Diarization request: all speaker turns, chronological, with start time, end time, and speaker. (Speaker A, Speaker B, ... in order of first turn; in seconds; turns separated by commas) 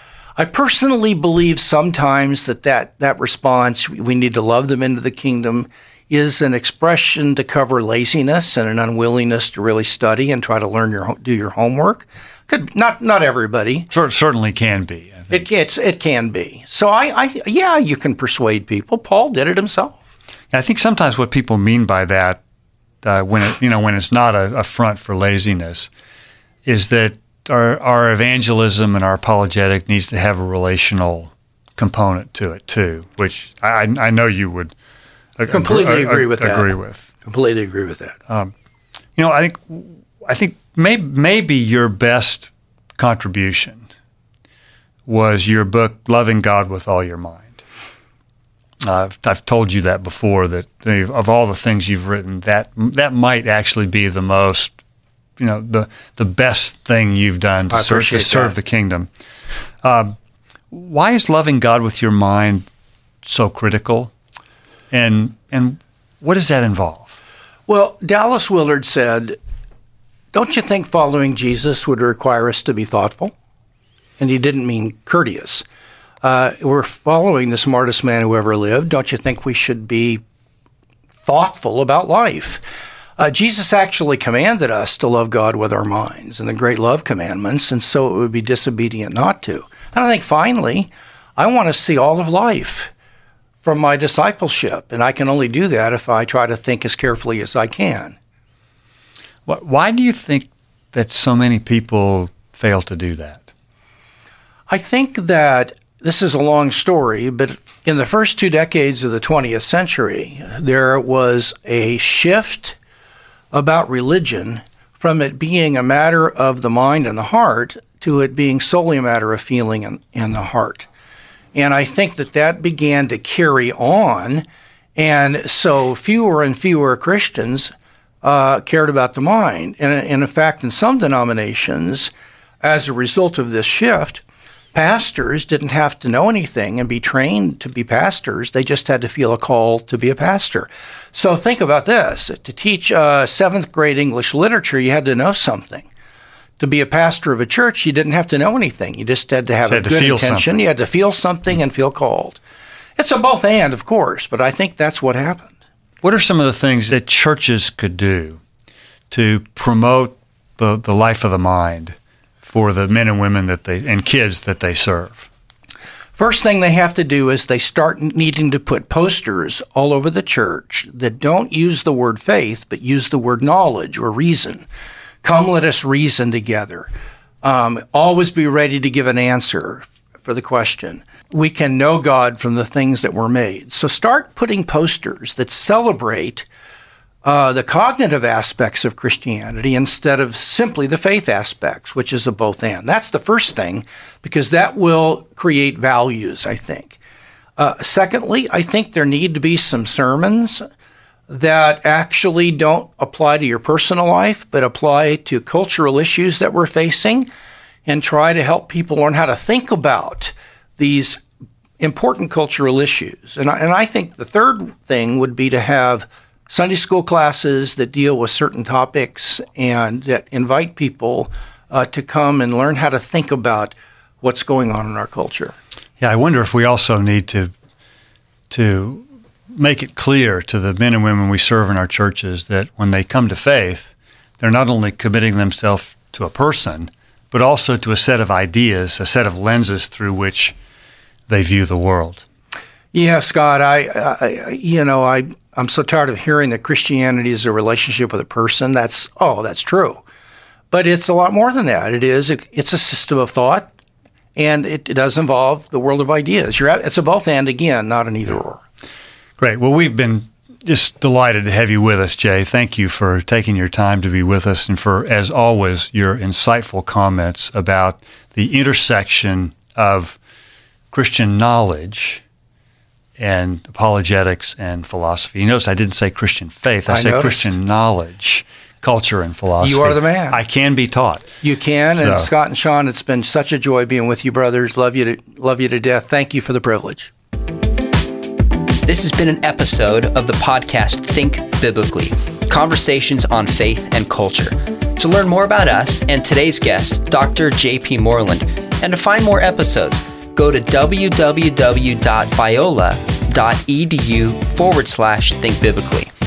Speaker A: 0.4-13.9, Speaker B: 13.9-15.4, Speaker A: 15.3-20.1, Speaker B: 20.5-22.4, Speaker B: 23.0-25.9, Speaker B: 26.6-34.7, Speaker B: 35.4-37.1, Speaker A: 35.5-38.2, Speaker B: 39.2-43.9, Speaker B: 45.0-47.6, Speaker B: 48.8-54.7, Speaker B: 55.4-59.1, Speaker A: 57.7-58.5, Speaker B: 59.8-60.1, Speaker B: 60.7-62.7, Speaker B: 63.2-64.1, Speaker B: 64.9-67.2, Speaker A: 67.7-69.4, Speaker A: 70.3-73.3, Speaker A: 74.2-75.6, Speaker A: 76.2-80.2, Speaker A: 81.2-92.9, Speaker A: 93.6-98.2, Speaker B: 99.5-103.5, Speaker A: 104.7-112.8, Speaker A: 113.5-120.9, Speaker A: 121.5-134.2, Speaker A: 134.7-145.9, Speaker A: 146.6-152.4, Speaker B: 149.6-150.6, Speaker A: 153.0-155.5, Speaker B: 156.0-158.4, Speaker B: 159.1-165.3, Speaker A: 166.2-174.7, Speaker A: 175.2-176.9, Speaker A: 177.4-186.5, Speaker A: 187.2-197.0, Speaker A: 197.6-200.6, Speaker A: 201.3-207.3, Speaker A: 207.9-211.2, Speaker A: 211.8-225.6, Speaker B: 226.0-227.5, Speaker B: 228.5-240.5, Speaker B: 241.3-242.2, Speaker A: 242.9-250.0, Speaker A: 250.7-253.7, Speaker A: 254.3-258.6, Speaker B: 259.4-270.2, Speaker B: 270.9-272.2, Speaker B: 273.2-281.4, Speaker A: 276.9-277.5, Speaker A: 279.6-280.4, Speaker A: 281.4-287.1, Speaker B: 281.9-282.3, Speaker C: 288.8-306.1